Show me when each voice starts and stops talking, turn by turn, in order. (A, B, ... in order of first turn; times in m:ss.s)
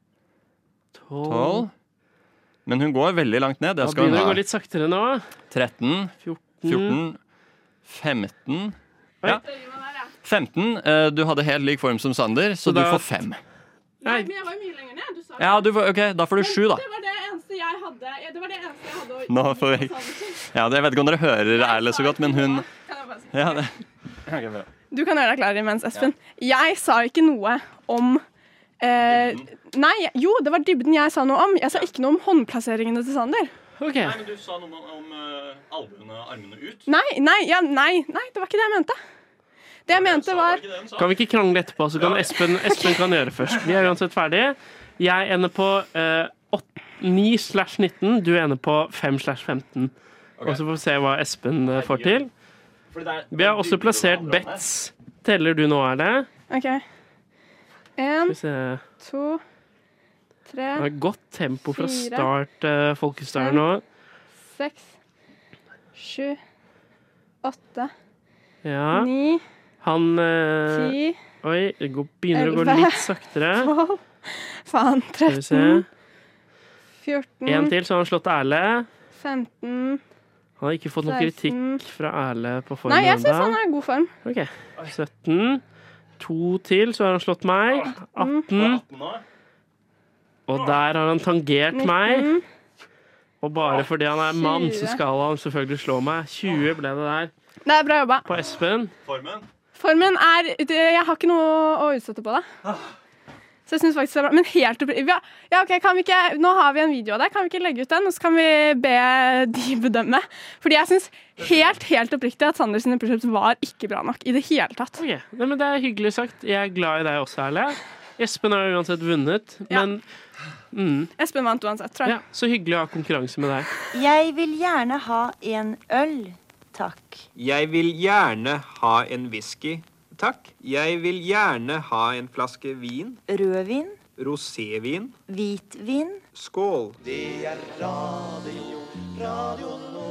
0:01.0-0:01.7 A
0:01.2-0:01.7 B
0:02.6-0:04.4 B
0:03.8-0:05.2 A
0:05.5-0:07.2 B
0:06.2-0:07.0 A
0:07.8-0:09.4 B
0:09.6-0:10.1 C
0:10.2-0:13.4 B
0:12.6-0:13.0 A
0:14.0-0:15.7 C
0:15.4-0:16.8 B
0:16.4-0:20.4 C
0:19.3-0:22.6 B
0:21.5-0:23.6 C
0:23.3-0:23.7 B
0:24.3-0:24.7 B
0:24.9-0:28.2 C
0:28.8-0:33.5 C
0:29.0-0:29.5 B
0:33.8-0:34.2 A
0:34.0-0:36.8 B
0:36.9-0:39.0 C
0:39.9-0:40.6 C
0:39.9-0:41.1 B
0:41.0-0:52.3 A
0:42.0-0:42.3 B
0:43.4-0:43.9 B
0:50.4-0:50.6 B
0:51.6-0:52.2 B
0:52.9-0:54.7 B
0:53.3-0:56.3 A
0:56.5-0:56.8 C
0:58.0-0:58.4 C
0:58.3-0:58.8 A
0:59.0-0:59.4 C
1:00.5-1:00.9 C
1:00.8-1:03.8 A
1:01.7-1:02.3 C
1:03.4-1:03.6 C
1:04.4-1:04.9 C
1:05.9-1:06.4 C
1:07.4-1:07.9 C
1:08.6-1:09.1 A
1:08.9-1:09.4 C
1:09.8-1:13.7 A
1:10.7-1:11.2 C
1:12.3-1:15.8 C
1:15.3-1:15.8 A
1:17.0-1:17.7 C
1:17.4-1:18.9 A
1:19.1-1:20.0 C
1:20.6-1:23.6 A
1:21.0-1:21.8 C
1:22.9-1:24.1 C
1:24.2-1:25.6 A
1:26.2-1:28.8 A
1:28.2-1:28.5 C
1:28.5-1:29.2 B
1:30.5-1:32.3 A
1:31.7-1:32.4 C
1:33.4-1:37.3 A
1:34.3-1:35.0 C
1:37.6-1:38.3 C
1:38.3-1:38.9 A
1:39.0-1:39.4 B
1:39.7-1:42.5 C
1:43.6-1:55.0 C
1:51.4-1:51.7 B
1:55.0-2:00.0 A
2:00.7-2:01.1 A
2:01.2-2:02.2 C
2:02.0-2:03.7 A
2:03.9-2:07.2 D
2:07.3-2:13.2 E
2:13.3-2:14.0 D
2:14.2-2:15.2 E
2:15.3-2:16.2 D
2:16.3-2:17.0 E